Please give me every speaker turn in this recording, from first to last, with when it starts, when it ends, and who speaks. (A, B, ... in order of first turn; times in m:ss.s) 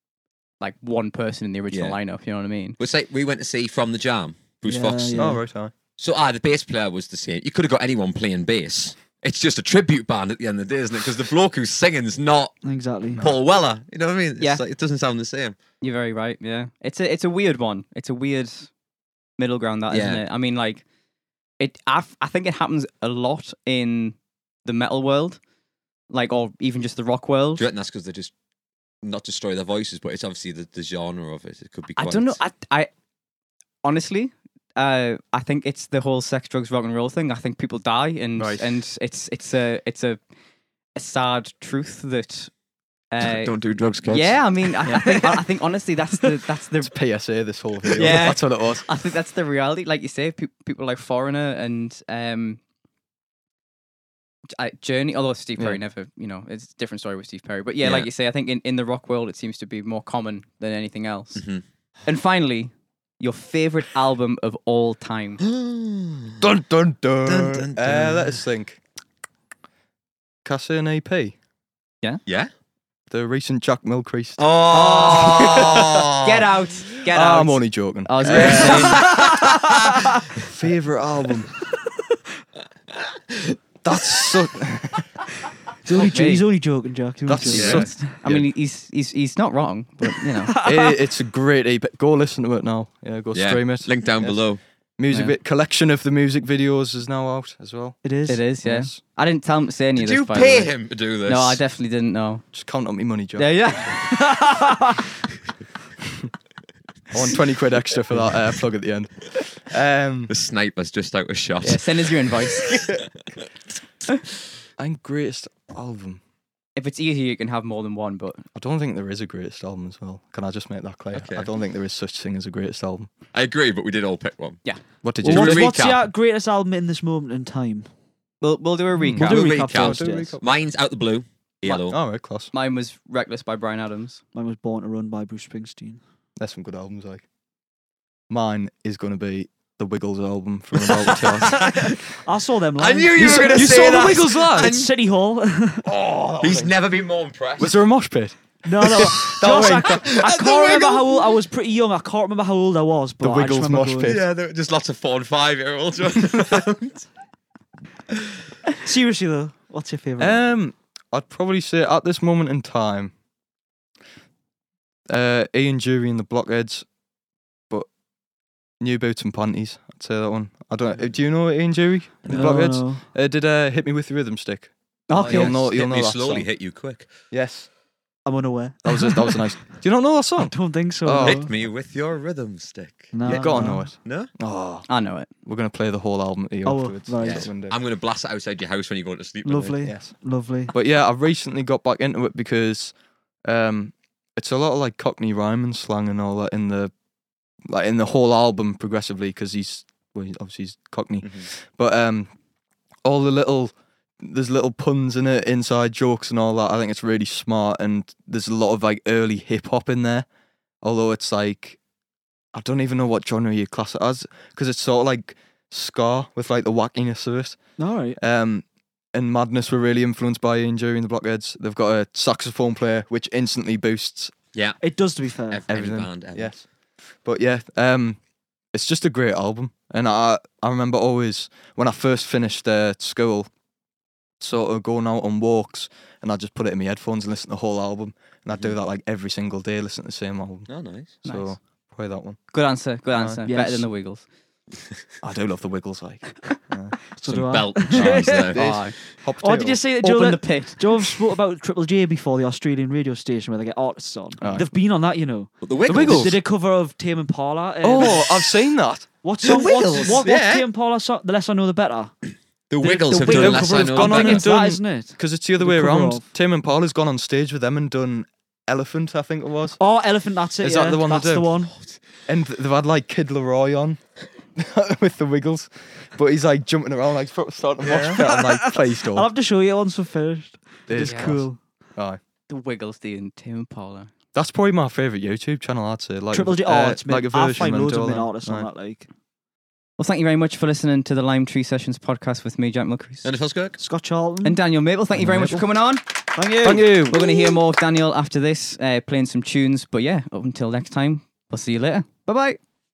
0:00.6-0:02.8 A
0:01.7-0:02.0 B
0:02.8-0:05.4 B
0:04.6-0:05.4 C
0:05.1-0:05.7 D
0:06.0-0:12.6 B
0:12.6-0:13.2 C
0:13.2-0:15.5 B
0:15.8-0:18.7 A
0:19.4-0:20.8 A
0:19.9-0:20.2 B
0:21.6-0:25.4 A
0:26.1-0:27.7 A
0:27.6-0:28.3 B
0:29.0-0:32.4 B
0:32.0-0:32.9 A
0:33.8-0:40.2 A
0:38.4-0:38.6 D
0:40.9-0:42.5 A
0:43.1-0:43.5 A
0:43.2-0:44.6 B
0:44.0-0:46.9 A
0:44.8-0:45.4 C
0:46.8-0:48.9 D
0:47.9-0:52.6 A
0:54.5-1:01.4 A
0:57.8-0:58.1 B
1:01.4-1:01.6 B
1:02.0-1:05.4 A
1:05.4-1:06.4 B
1:06.4-1:08.8 D
1:07.3-1:08.4 B
1:10.4-1:11.3 D
1:13.1-1:16.1 D
1:14.4-1:16.4 B
1:14.7-1:19.0 A
1:17.1-1:19.0 D
1:18.2-1:20.1 B
1:18.8-1:20.0 C
1:20.4-1:21.5 D
1:23.8-1:25.1 D
1:25.8-1:27.9 C
1:25.9-1:26.4 A
1:27.3-1:28.4 D
1:27.5-1:27.8 B
1:27.5-1:30.5 A
1:30.4-1:30.9 C
1:30.6-1:34.4 D
1:33.3-1:34.6 B
1:35.0-1:38.0 D
1:35.1-1:35.4 A
1:38.0-1:38.4 C
1:38.3-1:40.7 A
1:38.6-1:39.0 D
1:40.0-1:41.6 B
1:41.2-1:42.4 A
1:42.5-1:43.7 D
1:43.4-1:44.0 A
1:44.0-1:45.0 C
1:47.1-1:50.3 D
1:50.3-1:53.0 B
1:51.6-1:52.8 A
1:54.8-1:56.2 D
1:56.8-1:58.4 A
1:58.6-2:03.1 D
2:01.1-2:01.5 B
2:03.3-2:04.6 B
2:05.0-2:05.7 D
2:05.2-2:07.9 C
2:05.2-2:06.1 B
2:08.4-2:09.5 A
2:09.0-2:10.4 D
2:09.2-2:10.4 C
2:09.2-2:12.0 B
2:11.7-2:12.5 D
2:12.5-2:14.2 A
2:14.3-2:16.0 C
2:16.4-2:17.2 D
2:18.3-2:21.8 D
2:20.8-2:22.0 B
2:21.5-2:25.8 C
2:22.8-2:24.9 B
2:23.2-2:24.7 D
2:25.8-2:26.7 D
2:26.4-2:27.8 B
2:27.6-2:30.0 D
2:28.6-2:34.2 C
2:28.8-2:31.3 B
2:33.2-2:34.2 D
2:34.0-2:37.0 B
2:38.8-2:40.4 C
2:40.2-2:43.1 D
2:45.1-2:46.8 D
2:48.8-2:56.5 D
2:52.3-2:53.0 C
2:55.1-2:55.5 A
2:55.2-2:57.1 B
2:57.3-2:57.7 D
2:58.2-2:59.5 C
2:58.8-3:01.5 D
3:00.4-3:01.5 C
3:01.2-3:03.1 B
3:03.1-3:03.9 C
3:03.2-3:04.9 D
3:04.0-3:04.3 B
3:04.9-3:05.3 A
3:05.4-3:07.8 D
3:06.6-3:07.5 C
3:07.2-3:09.9 B
3:09.4-3:10.7 C
3:09.8-3:10.1 D
3:10.7-3:12.9 D
3:13.4-3:16.9 D
3:17.7-3:22.3 D
3:21.2-3:21.5 B
3:23.0-3:30.2 D
3:30.8-3:31.8 D
3:32.5-3:37.6 D
3:37.8-3:38.2 C
3:38.2-3:44.3 D
3:44.5-3:44.8 B
3:44.8-3:45.6 C
3:45.5-3:46.5 B
3:45.7-3:46.6 D
3:47.2-3:48.2 D
3:48.7-3:53.5 D
3:54.4-4:00.7 D
4:00.7-4:01.1 B
4:01.2-4:02.4 D
4:01.2-4:01.6 A
4:02.5-4:04.2 A
4:03.1-4:03.8 D
4:03.5-4:03.8 C
4:05.2-4:06.9 D
4:07.1-4:08.6 C
4:07.2-4:08.6 B
4:08.0-4:09.8 D
4:08.5-4:09.0 A
4:09.4-4:18.5 C
4:10.0-4:10.9 A
4:14.4-4:14.7 D
4:15.6-4:16.4 B
4:15.9-4:16.4 D
4:17.8-4:19.0 D
4:19.2-4:22.1 C
4:19.4-4:20.6 B
4:19.5-4:20.2 A
4:22.7-4:24.5 B
4:22.8-4:26.2 C
4:23.2-4:29.8 D
4:29.8-4:31.7 C
4:30.6-4:31.5 D
4:32.3-4:34.0 D
4:34.6-4:39.3 D
4:37.8-4:41.6 C
4:40.9-4:42.2 D
4:41.0-4:41.3 A
4:42.5-4:44.1 A
4:44.3-4:48.7 D
4:46.3-4:49.1 C
4:50.0-4:53.3 A
4:53.2-4:53.8 B
4:53.8-4:54.6 C
4:54.4-4:56.0 A
4:55.1-4:55.7 D
4:56.3-4:57.0 C
4:56.6-4:57.2 D
4:56.7-5:02.6 A